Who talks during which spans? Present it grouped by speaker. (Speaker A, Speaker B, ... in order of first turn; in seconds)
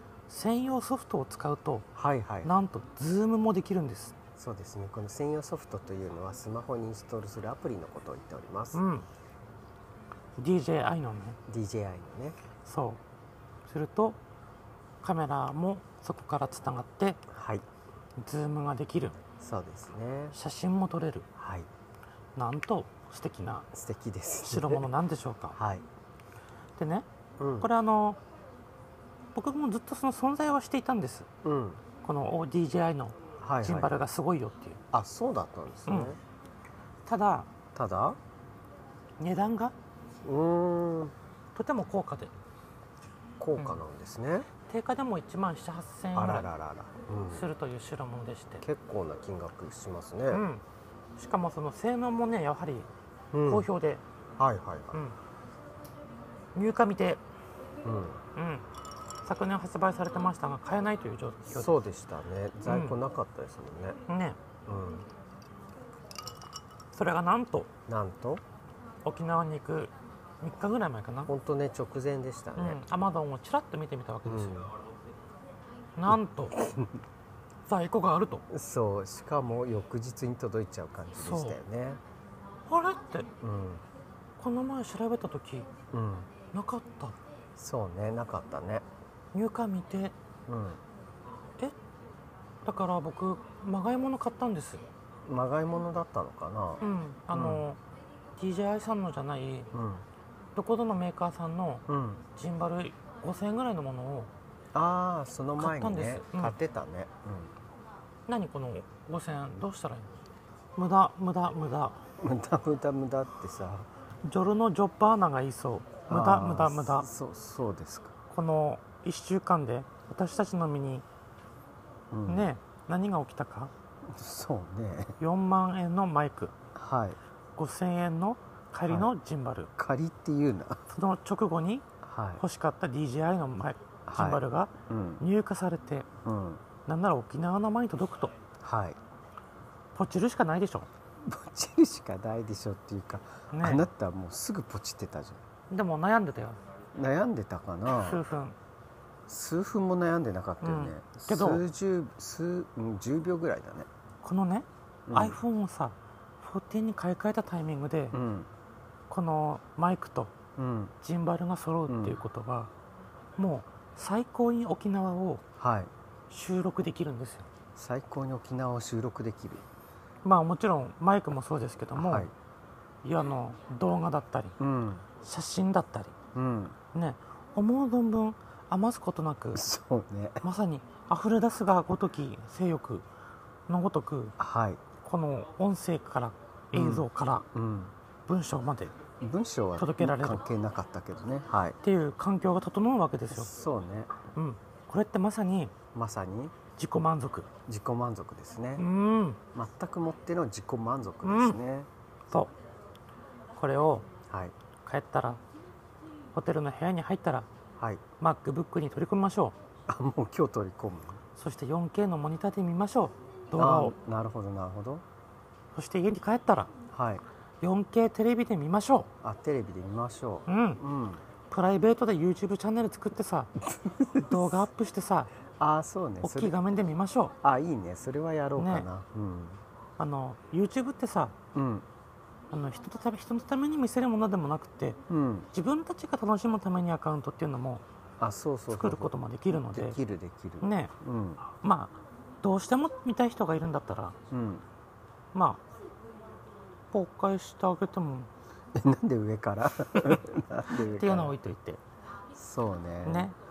Speaker A: 0.3-1.9, 2.4-4.1, 8.7-9.1, 10.4-11.4, 12.6-13.0, 13.7-14.2, 15.0-17.2, 18.2-19.1, 20.3-21.3, 22.4-23.7, 24.4-25.6, 26.8-27.1, 27.6-28.2, 29.3-31.3, 32.0-34.8, 35.9-36.1, 37.0-37.5, 39.2-39.7, 41.5-42.3, 43.6-43.8, 44.6-46.5, 47.3-48.6, 50.3-50.6, 51.1-52.9, 53.4-54.0, 56.5-57.2, 58.4-58.7, 59.2-61.7, 62.6-63.0, 64.1-64.4, 66.9-67.7, 69.0-71.3, 72.6-74.6, 76.0-76.6, 77.7-78.5, 81.2-81.6, 82.7-83.3, 84.4-85.7, 86.5-87.2, 89.3-90.1, 92.6-94.8, 96.8-97.8, 98.4-99.7, 100.5-104.3, 105.6-106.5, 108.3-110.1, 110.8-112.0, 114.2-117.1, 118.3-121.0, 122.3-123.7, 125.2-126.5, 127.6-129.7, 130.9-131.8, 132.4-136.1, 136.9-138.3, 139.9-140.9, 143.5-143.8, 145.7-146.6, 147.9-148.6, 150.6-151.6, 154.2-158.2, 159.1-160.3, 161.0-162.7, 163.4-165.4, 166.3-167.5, 170.2-172.3, 173.0-174.6, 175.2-176.1, 176.9-179.6, 180.4-183.1, 183.7-184.3, 185.0-187.5, 188.3-188.9, 189.8-190.4, 191.8-193.5, 194.3-195.7, 196.8-197.5, 198.8-199.4, 201.2-201.6, 203.5-204.1, 204.8-205.4, 206.3-207.5, 208.2-209.6, 211.4-213.9, 215.7-216.7, 217.6-219.1, 220.5-220.8, 221.5-223.5, 224.1-225.3, 226.2-227.3, 228.6-228.9, 230.0-231.3, 232.5-235.0, 235.5-237.8, 238.7-240.0, 240.6-240.9, 241.5-244.1, 245.3-245.6, 246.9-248.3, 249.9-250.2, 250.9-251.8, 253.0-253.3
Speaker B: 1.9-2.5, 4.3-8.8, 11.5-12.4, 17.3-17.6, 19.2-20.3, 21.4-21.7, 23.7-24.9, 25.5-25.9, 27.4-27.7, 31.4-31.8, 33.4-33.9, 34.9-36.2, 37.7-38.2, 40.2-41.1, 43.4-44.5, 46.1-47.5, 48.6-50.5, 53.3-53.7, 54.4-55.0, 57.8-58.2, 61.5-64.0, 64.7-65.1, 67.9-68.4, 71.3-72.8, 74.2-74.7, 76.5-76.9, 78.5-82.0, 83.4-83.8, 85.9-86.3, 87.6-88.8, 90.5-90.8, 95.2-97.6, 99.7-100.0, 101.9-102.2, 104.7-107.5, 112.2-113.9, 116.0-118.1, 122.1-122.5, 124.0-125.2, 126.7-127.2, 128.9-129.1, 129.8-130.8, 132.0-132.4, 134.1-135.2, 136.2-136.6, 138.6-139.0, 141.2-145.4, 146.9-148.2, 149.3-153.9, 155.1-155.4, 158.1-158.5, 160.6-160.9, 161.9-162.2, 165.6-165.9, 167.7-169.7, 171.9-172.3, 174.6-175.1, 176.3-176.8, 179.5-180.4, 184.4-184.8, 186.7-187.9, 189.2-191.8, 193.3-194.1, 195.9-196.5, 197.7-198.8, 199.5-201.9, 204.3-204.5, 209.9-211.2, 213.6-215.0, 216.9-217.2, 219.2-221.2, 223.6-224.6, 225.6-226.6, 227.4-229.6, 231.5-231.8, 235.1-235.5, 238.2-241.4, 244.3-244.6, 248.7-251.4, 252.3-253.3